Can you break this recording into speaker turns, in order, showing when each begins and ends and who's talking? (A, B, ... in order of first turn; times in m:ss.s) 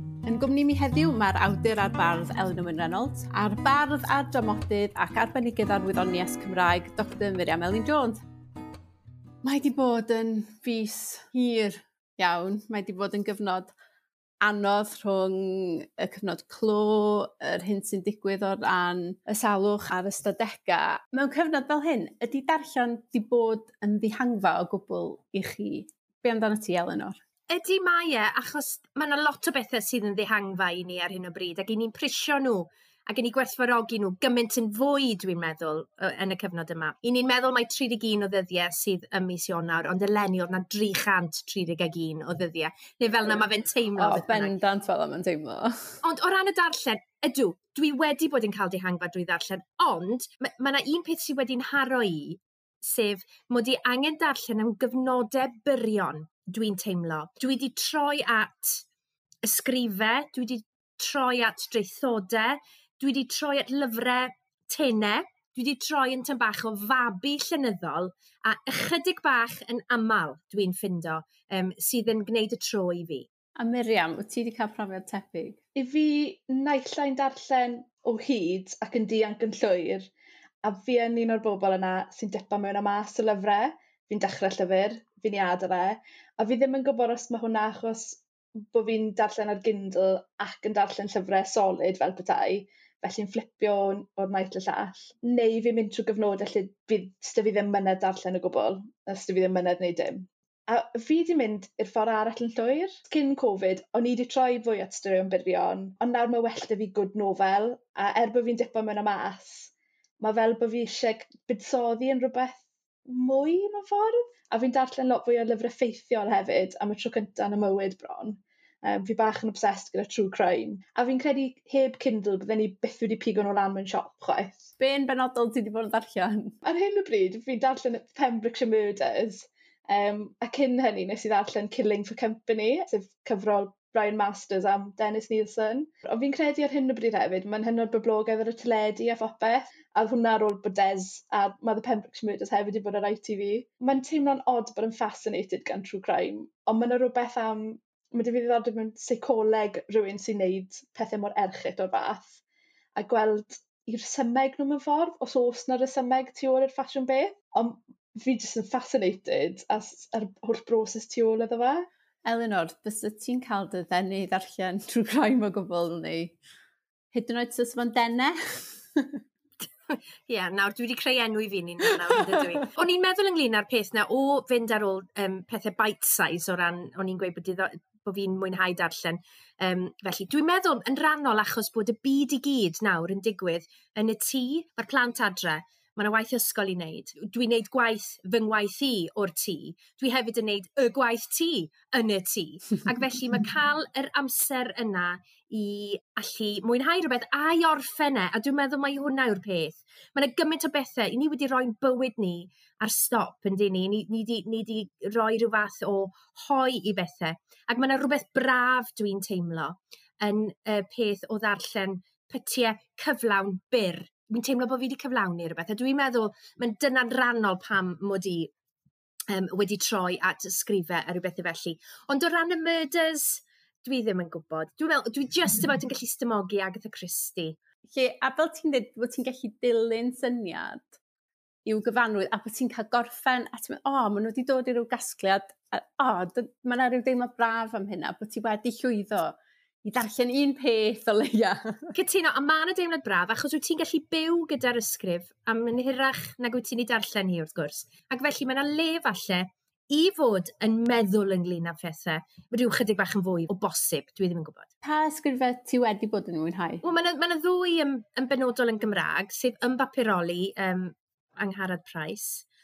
0:00.2-0:08.2 A
0:09.4-0:13.7 A
0:14.4-0:27.2 A
0:27.5-0:44.5 B
0:44.0-0:46.0 A
0:46.0-0:58.8 B
0:59.4-1:13.3 B
1:13.6-1:15.6 A
1:15.8-1:20.1 C
1:20.6-2:04.7 C
2:04.8-2:06.6 A
2:06.6-2:32.4 C
2:33.0-2:41.9 C
2:42.2-2:46.4 A
2:47.1-2:49.2 A
2:49.9-3:38.5 B
3:39.3-3:47.6 B
3:47.9-3:51.0 A
3:51.7-4:02.0 A
4:02.0-4:14.7 B
4:14.8-4:16.8 A
4:16.8-4:22.4 B